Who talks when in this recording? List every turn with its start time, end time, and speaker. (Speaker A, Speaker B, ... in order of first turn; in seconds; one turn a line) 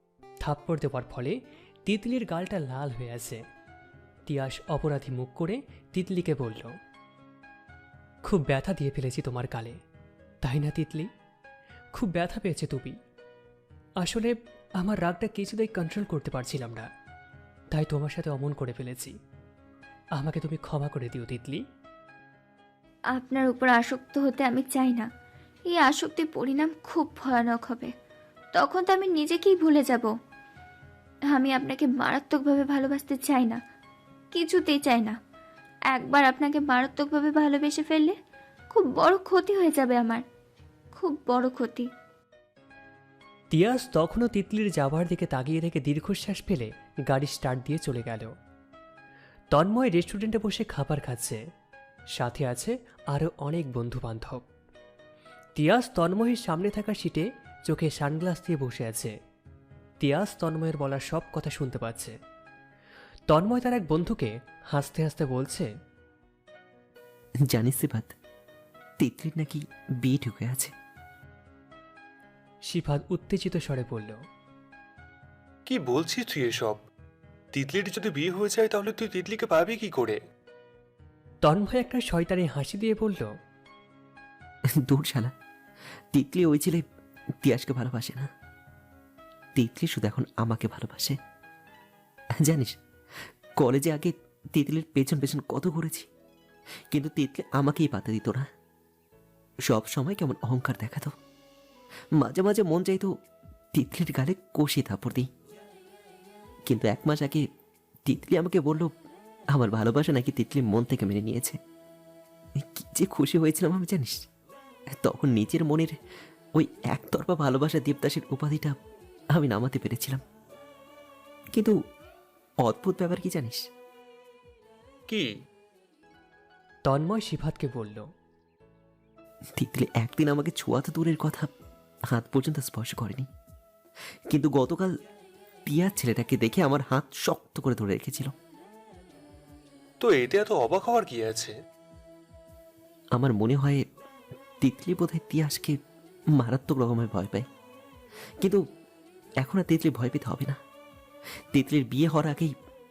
Speaker A: 0.4-3.4
Speaker A: 4.3-6.7
Speaker A: 8.2-9.8
Speaker A: 10.4-11.1
Speaker A: 11.9-13.0
Speaker A: 14.0-16.9
Speaker A: 17.7-19.1
Speaker A: 20.1-21.6
Speaker B: 23.1-25.1
Speaker B: 25.7-27.9
Speaker B: 28.5-30.1
Speaker B: 31.3-33.6
Speaker B: 34.3-35.2
Speaker B: 35.9-38.1
Speaker B: 38.7-40.2
Speaker B: 40.9-41.9
Speaker A: 43.5-48.3
Speaker A: 49.5-51.4
Speaker A: 52.1-54.4
Speaker A: 55.5-59.1
Speaker A: 60.0-62.1
Speaker A: 63.3-65.7
Speaker C: 67.5-68.1
Speaker C: 69.0-70.7
Speaker A: 72.7-74.2
Speaker D: 75.7-76.8
Speaker A: 76.3-76.7
Speaker D: 77.5-80.2
Speaker A: 78.1-78.5
Speaker A: 81.4-83.3
Speaker C: 84.8-85.3
Speaker C: 86.1-86.8
Speaker C: 87.4-88.3
Speaker C: 89.5-91.2
Speaker C: 92.4-92.8
Speaker C: 93.6-96.1
Speaker C: 96.9-98.5
Speaker C: 99.7-101.1
Speaker C: 102.2-103.1
Speaker C: 103.7-105.3
Speaker C: 106.7-107.4
Speaker C: 108.0-108.9
Speaker C: 109.5-111.6
Speaker C: 112.6-114.2
Speaker C: 114.9-115.9
Speaker C: 116.6-118.7
Speaker C: 119.3-120.2
Speaker C: 122.6-123.7
Speaker D: 125.1-125.4
Speaker A: 126.9-128.0
Speaker C: 129.6-131.5
Speaker C: 132.1-133.3
Speaker C: 134.3-134.9
Speaker C: 135.7-138.3
Speaker D: 140.0-141.5
Speaker A: 140.1-141.1
Speaker C: 143.1-143.8
Speaker C: 144.6-145.8
Speaker C: 146.3-147.4
Speaker C: 149.4-150.6
Speaker C: 151.5-152.5